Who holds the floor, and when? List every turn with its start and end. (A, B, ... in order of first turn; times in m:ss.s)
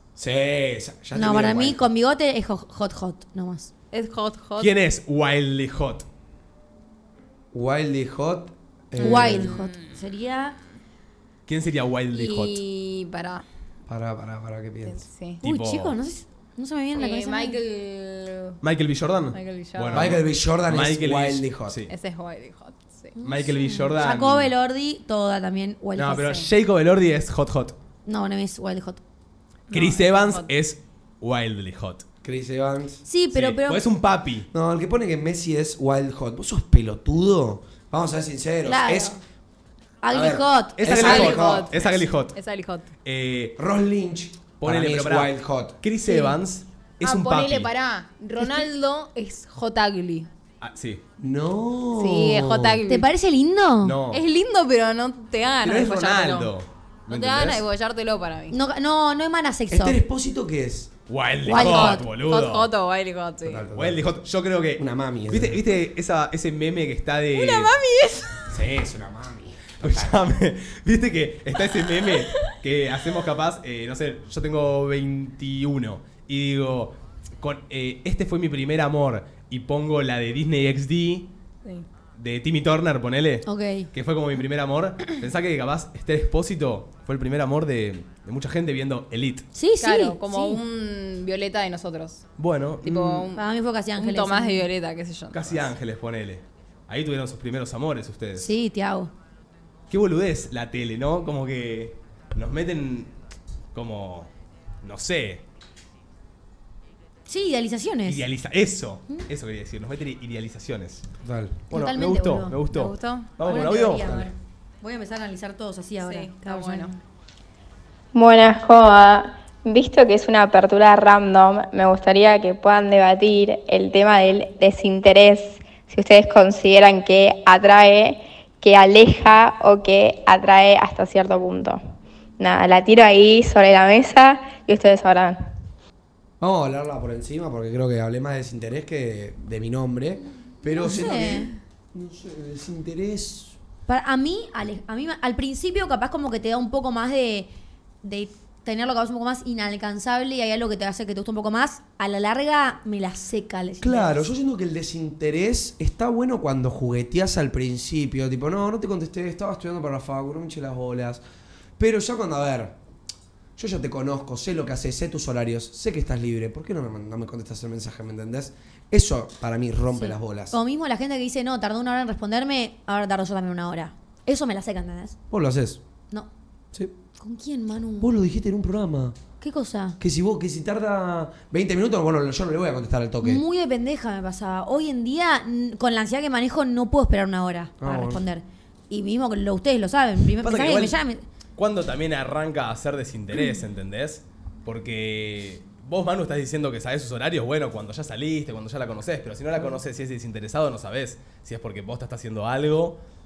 0:00.2-0:01.9 A
0:01.1-0:03.7 B
0:03.9-0:04.7 C
0:04.6-0:06.0 D
0:07.5-0:09.6 A
0:09.0-0:10.6 B
0:09.0-0:10.0 C
0:11.5-0:12.6 D
0:12.1-0:13.4 C
0:13.9-0:15.0 A
0:14.8-0:15.4 C
0:15.4-0:15.9 D
0:15.4-0:17.6 B
0:16.9-0:18.6 C
0:18.6-0:21.9 D
0:19.3-0:20.1 C
0:19.9-0:21.8 A
0:21.9-0:23.2 C
0:23.2-0:26.4 B
0:23.2-0:24.5 D
0:26.0-0:27.8 D
0:28.0-0:29.0 B
0:29.7-0:30.5 C
0:29.7-0:32.0 D
0:32.2-0:33.0 A
0:33.0-0:33.8 B
0:33.3-0:34.5 D
0:34.5-0:39.2 A
0:38.6-0:39.2 B
0:40.0-0:40.9 B
0:40.1-0:41.7 A
0:40.8-0:42.4 D
0:40.9-0:42.9 C
0:43.0-0:43.6 D
0:43.6-0:45.8 A
0:44.6-0:47.7 D
0:46.0-0:46.4 B
0:47.0-0:50.3 C
0:48.4-0:48.7 B
0:50.6-0:51.0 D
0:51.2-0:52.8 A
0:52.0-0:53.1 C
0:52.9-0:54.0 B
0:53.8-0:54.2 D
0:54.1-0:56.5 C
0:55.6-0:57.6 D
0:57.1-0:58.6 C
0:58.5-1:00.0 B
0:59.7-1:00.9 A
1:01.1-1:02.7 D
1:01.4-1:02.0 B
1:01.5-1:03.7 C
1:03.4-1:04.1 A
1:03.7-1:07.7 D
1:04.8-1:05.6 A
1:07.3-1:08.5 C
1:08.5-1:10.2 A
1:09.8-1:21.3 D
1:22.1-1:29.5 D
1:23.4-1:23.9 B
1:29.5-1:30.6 B
1:29.8-1:32.2 C
1:32.4-1:33.2 D
1:32.8-1:35.7 C
1:33.3-1:34.7 B
1:35.3-1:38.5 D
1:38.4-1:39.1 B
1:39.9-1:43.1 D
1:43.7-1:44.3 D
1:44.8-1:45.4 D
1:47.3-1:48.2 B
1:48.0-1:51.0 D
1:51.2-1:51.6 A
1:51.7-1:54.1 D
1:51.7-1:52.6 B
1:52.7-1:53.4 C
1:53.4-1:57.0 B
1:53.7-1:54.3 A
1:56.0-1:56.9 C
1:58.1-2:11.8 E
2:12.4-2:15.4 E
2:16.4-2:23.6 A
2:20.8-2:21.5 B
2:20.9-2:21.4 C
2:23.9-2:27.5 B
2:28.0-2:34.3 B
2:33.8-2:41.2 A
2:41.8-2:42.8 A
2:43.6-2:50.6 A
2:49.9-2:55.2 B
2:55.3-2:55.8 A
2:57.2-2:58.1 B
2:58.0-2:59.2 A
2:59.4-3:00.0 B
3:00.0-3:03.4 A
3:03.2-3:11.2 B
3:07.8-3:08.2 A
3:10.4-3:11.0 D
3:11.6-3:23.0 D